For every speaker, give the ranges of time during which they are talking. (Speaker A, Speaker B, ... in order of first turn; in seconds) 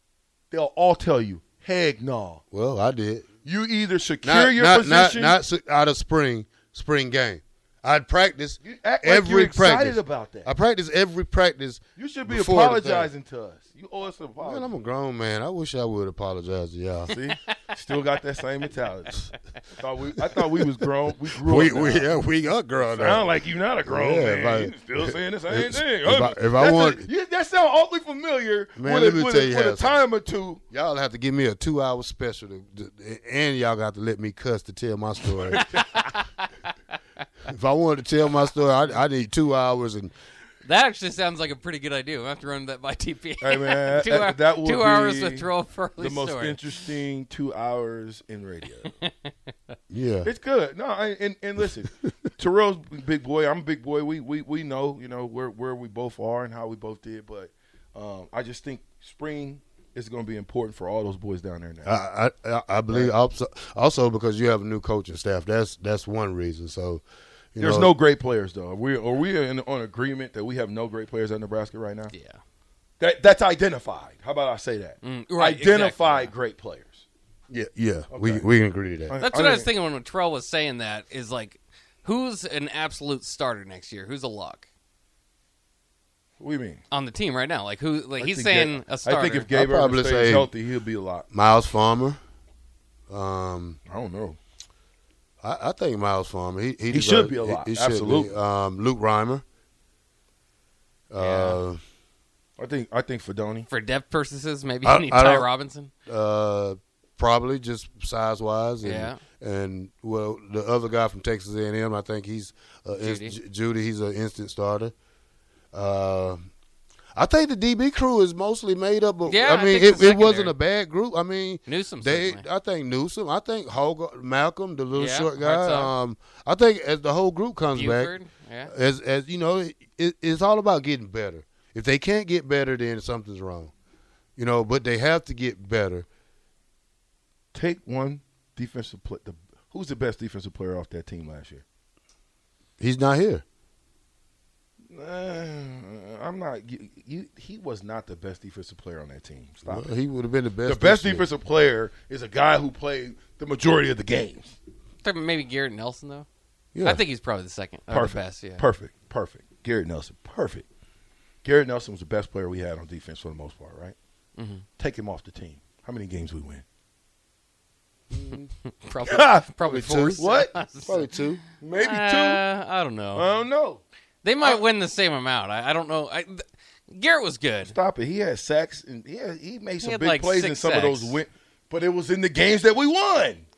Speaker A: 0.5-2.4, 3.4-5.4, 8.6-10.5, 12.0-14.7, 17.1-19.1, 19.8-22.1, 22.9-30.6, 43.4-45.4, 46.0-48.9, 50.2-61.9, 62.9-63.1, 67.6-72.1, 73.0-77.0, 78.1-78.4, 79.1-79.7, 86.4-86.8, 88.2-91.2, 93.9-94.4, 96.9-98.3, 102.6-103.7, 137.5-141.6, 144.9-149.9, 150.6-154.6, 157.9-160.6, 161.4-163.9, 164.8-166.6, 169.1-169.5, 170.2-170.5, 171.6-172.4, 173.2-173.8, 177.7-183.4
Speaker B: 2.5-3.3, 4.2-13.1, 14.4-17.1, 20.2-20.8, 21.4-23.3, 23.8-27.1, 28.8-30.0, 30.7-35.9, 37.5-40.1, 49.9-50.3, 61.8-67.0, 67.5-67.9, 77.5-79.2, 89.5-90.5, 91.3-92.2, 93.1-93.8, 95.4-99.4, 101.1-101.8, 104.8-105.5, 106.0-114.9, 115.7-116.4, 117.2-128.1, 128.7-133.7, 134.4-136.1, 142.8-143.4, 149.6-151.3, 156.7-157.0, 168.1-168.4, 169.6-170.2, 170.8-171.4
Speaker C: 17.1-17.6, 35.5-36.5, 40.6-46.8, 48.8-49.3, 72.1-72.4, 75.0-76.3, 79.2-84.7, 86.9-89.5, 101.2-101.6, 103.7-105.9, 108.8-109.2, 113.0-113.3, 119.3-120.5, 121.7-122.5, 124.9-125.9, 127.7-128.7, 155.0-156.2, 156.8-158.6, 164.3-164.6, 168.3-171.1, 171.7-173.3, 174.2-177.7, 179.8-181.2